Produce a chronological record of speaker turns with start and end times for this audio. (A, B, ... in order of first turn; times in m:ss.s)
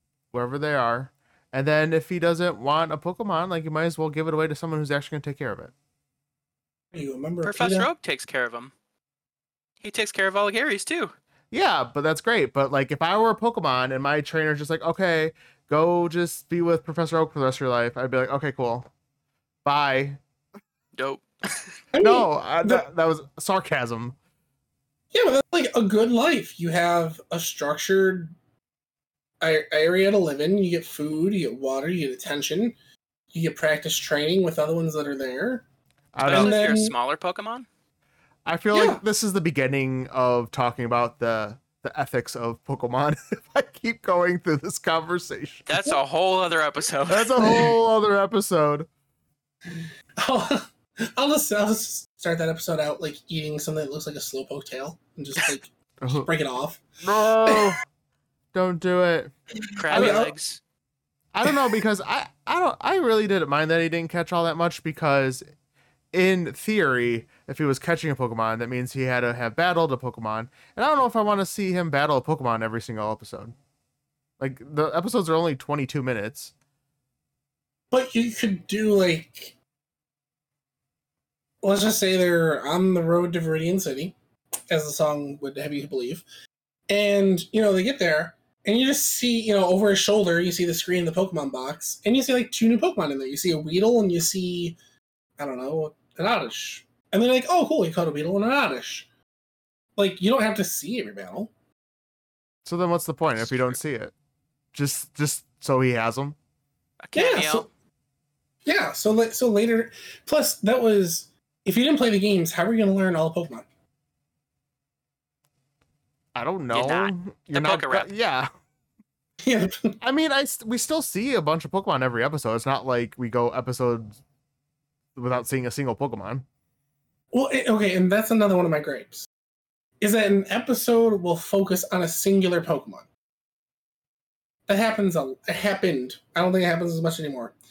0:00.3-0:05.7 A
0:06.9-0:07.9 B
0:07.4-0:08.7 C
0:09.8-0:11.1 C
0:11.5-0:18.9 A
0:19.6-0:20.2 A
0:21.0-0:21.8 C
0:21.9-0:22.9 B
0:22.0-0:24.2 A
0:25.1-0:28.3 B
0:29.4-0:32.8 B
0:33.3-0:35.7 B
0:36.1-0:36.6 A
0:36.2-0:37.7 C
0:36.3-0:36.9 B
0:38.5-0:45.7 A
0:38.7-0:39.0 B
0:45.7-0:47.4 C
0:47.1-0:48.9 A
0:47.4-0:47.7 B
0:49.7-0:56.9 B
0:56.0-0:56.3 A
0:57.0-0:57.8 A
0:57.4-0:57.7 B
0:58.5-0:59.3 A
0:59.8-1:00.6 C
0:59.9-1:00.3 A
0:59.9-1:00.3 B
1:01.3-1:05.4 A
1:01.4-1:01.7 B
1:06.1-1:13.6 A
1:14.4-1:16.5 A
1:17.9-1:19.6 B
1:21.6-1:24.2 B
1:24.7-1:26.2 B
1:26.9-1:34.8 B
1:35.4-1:39.1 B
1:40.0-1:41.5 B
1:42.6-1:44.1 A
1:44.7-1:46.4 A
1:47.0-1:47.7 C
1:47.2-1:47.7 B
1:48.6-1:53.7 B
1:56.4-1:58.5 A
1:56.7-1:58.1 C
1:59.4-2:00.0 B
2:00.0-2:04.2 A
2:05.2-2:06.5 A
2:07.3-2:09.3 B
2:10.0-2:13.1 B
2:14.7-2:17.5 B